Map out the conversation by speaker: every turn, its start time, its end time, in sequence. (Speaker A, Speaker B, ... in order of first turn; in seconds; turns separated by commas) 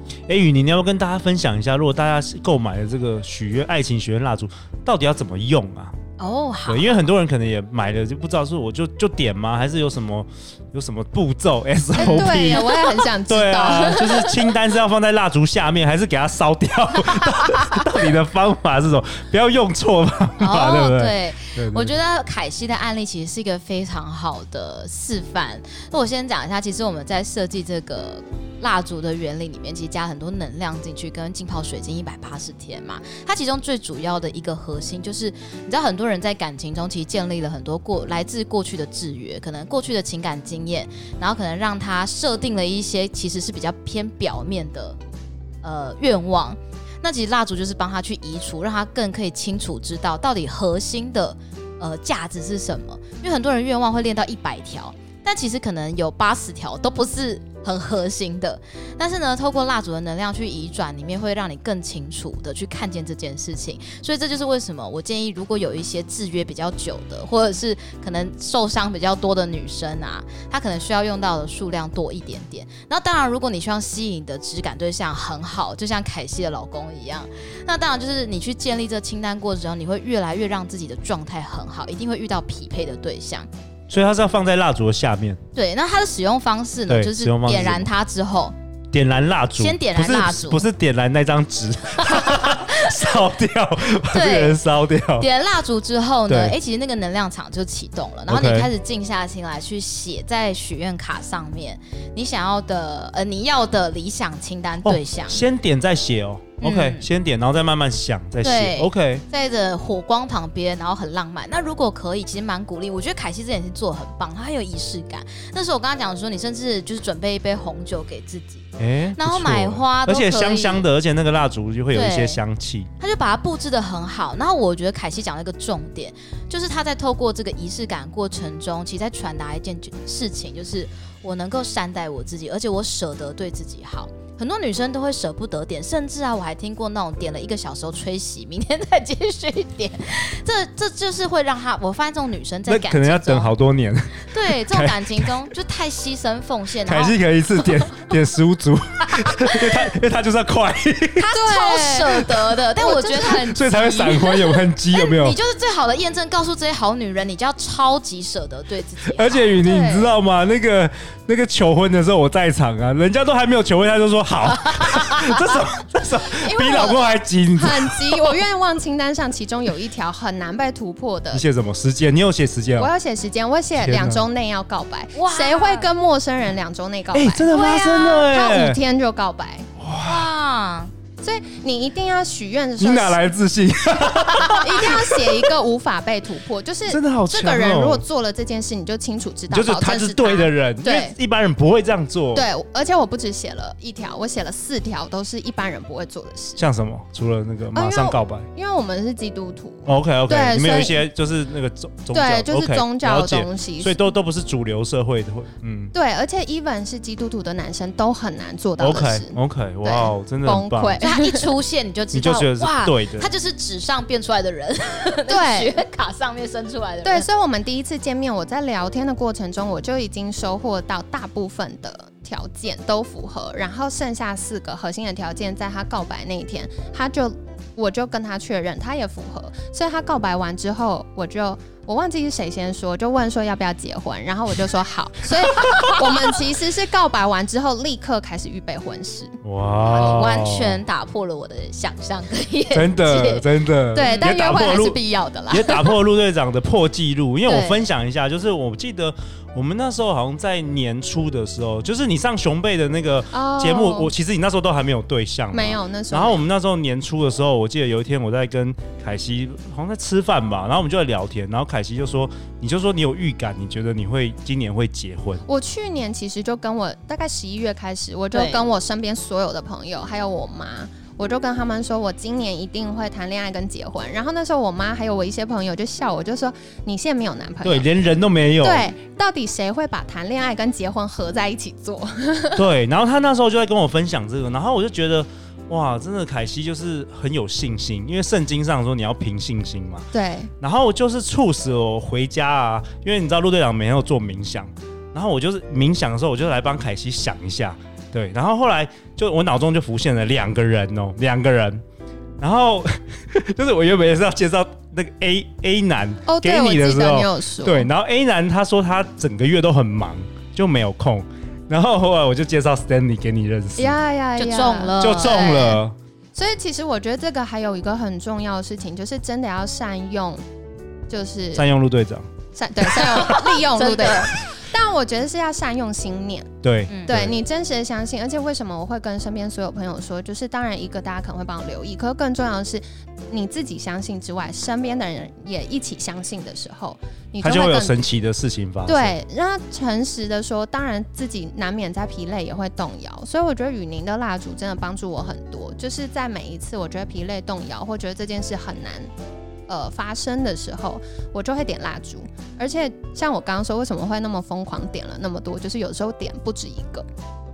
Speaker A: 0.3-6.0, Speaker B: 6.2-7.0, Speaker A: 6.7-21.9, Speaker C: 11.9-14.4, Speaker B: 12.0-12.2, Speaker B: 20.4-45.0, Speaker B: 45.6-83.5, Speaker A: 83.9-85.4, Speaker B: 85.5-88.5, Speaker A: 86.9-87.9, Speaker A: 88.9-95.3, Speaker B: 89.6-90.6, Speaker B: 92.0-92.8, Speaker B: 94.1-94.6, Speaker B: 95.2-105.4, Speaker A: 96.3-96.5, Speaker A: 98.3-98.7, Speaker A: 104.8-109.2, Speaker B: 106.6-107.0, Speaker B: 108.4-120.8, Speaker A: 118.8-122.9, Speaker B: 121.9-122.4, Speaker B: 123.0-143.5, Speaker A: 142.7-145.3, Speaker B: 144.3-147.2, Speaker A: 146.9-151.3, Speaker B: 151.2-154.3, Speaker C: 151.3-154.3, Speaker A: 153.5-155.4, Speaker B: 154.9-159.5, Speaker A: 159.1-168.4, Speaker C: 159.6-160.1, Speaker B: 164.6-165.4, Speaker C: 166.3-171.4, Speaker A: 171.3-172.9, Speaker C: 172.8-179.7, Speaker A: 173.8-174.2, Speaker B: 175.1-175.9, Speaker A: 177.1-178.8, Speaker A: 179.8-180.3, Speaker B: 180.0-180.9, Speaker C: 181.2-183.2, Speaker A: 182.8-185.5, Speaker C: 184.6-191.1, Speaker A: 186.9-188.0, Speaker A: 189.5-192.4, Speaker C: 192.3-196.6, Speaker A: 196.6-198.5, Speaker C: 197.7-201.0, Speaker A: 199.8-205.9, Speaker C: 202.1-204.0, Speaker C: 205.9-211.5, Speaker A: 208.8-211.0, Speaker B: 211.0-217.3, Speaker A: 212.1-213.3, Speaker C: 215.3-215.8, Speaker C: 217.0-239.4, Speaker A: 235.6-235.9, Speaker A: 239.4-240.8, Speaker B: 239.8-243.4, Speaker A: 242.7-245.0, Speaker C: 243.9-245.9, Speaker B: 244.0-244.3, Speaker A: 245.5-265.4, Speaker B: 247.5-247.8, Speaker C: 253.3-254.1, Speaker C: 255.5-256.4, Speaker C: 265.4-277.9, Speaker B: 268.3-268.6, Speaker A: 277.6-278.9, Speaker C: 278.6-282.7, Speaker A: 282.5-290.1, Speaker C: 290.1-290.5, Speaker A: 290.6-301.8, Speaker A: 302.4-314.0, Speaker C: 306.2-307.9, Speaker C: 313.8-315.8, Speaker B: 314.4-315.7, Speaker A: 315.0-315.9, Speaker C: 316.3-320.4, Speaker C: 321.1-321.6, Speaker A: 321.5-322.2, Speaker C: 322.5-326.5, Speaker B: 322.9-324.3, Speaker A: 326.6-327.4, Speaker C: 327.1-338.0, Speaker A: 337.4-339.1, Speaker C: 338.9-349.1, Speaker C: 349.7-357.1